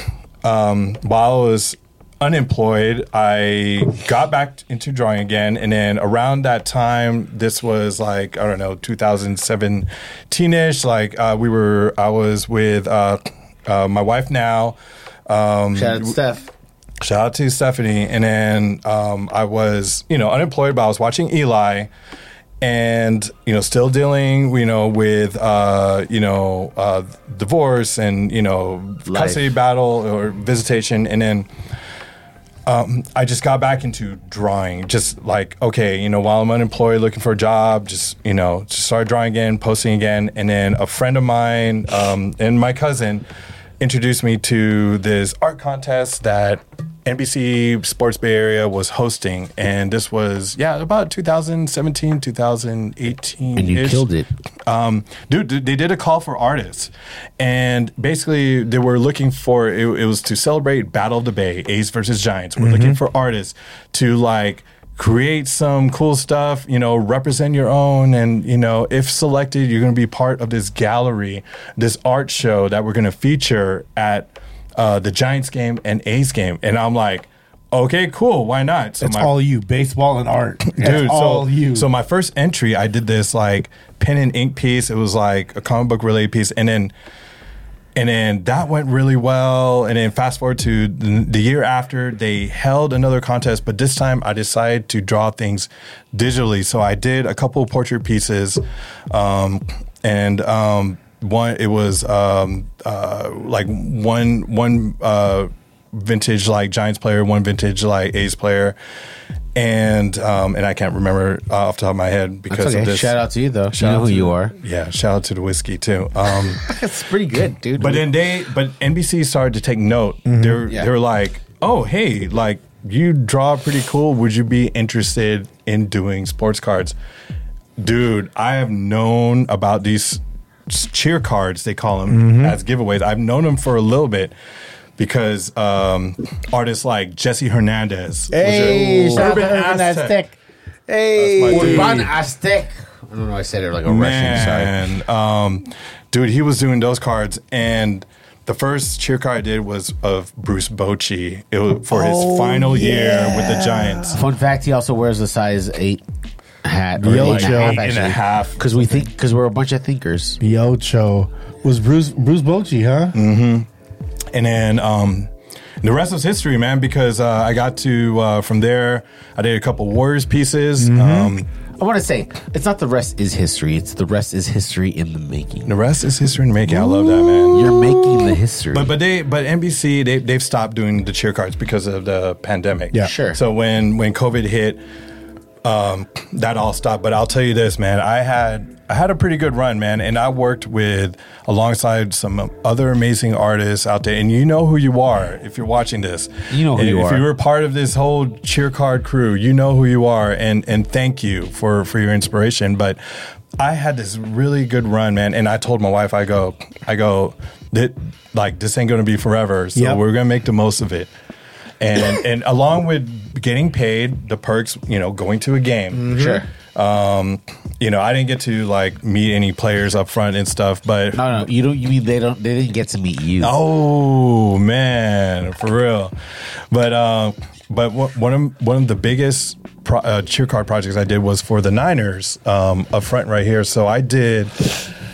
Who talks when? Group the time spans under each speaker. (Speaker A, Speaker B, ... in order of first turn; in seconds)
Speaker A: 0.4-16.1, 17.0-21.9, 22.6-31.5, 32.6-43.2, 43.8-54.0, 54.6-79.3, 80.7-86.9, 88.0-108.8, 109.5-113.2, 113.7-116.7, 117.8-127.0, 127.8-134.3, 135.0-140.2, 141.1-142.1, 143.8-154.2, 157.0-158.9, 163.1-163.7, 164.3-165.3, 165.8-171.5, 175.7-177.8, 178.7-184.8, 185.6-203.0, 203.6-211.1, 211.8-221.5, 223.4-226.1, 226.7-234.9
Speaker B: 15.7-16.5, 29.0-29.4, 53.5-54.3, 112.5-114.5, 116.5-118.1, 120.7-120.9, 138.4-139.3, 141.5-144.7, 154.1-156.0, 156.6-160.4, 171.8-175.7, 177.5-178.9, 183.0-183.4, 196.5-197.2, 216.1-216.5, 221.1-223.5
Speaker C: 62.6-63.0, 79.0-81.9, 120.2-120.7, 132.1-132.6, 138.3-140.3, 140.9-142.1, 151.9-154.1, 157.0-157.9, 160.4-163.2, 170.8-171.3, 176.8-177.4, 215.9-216.4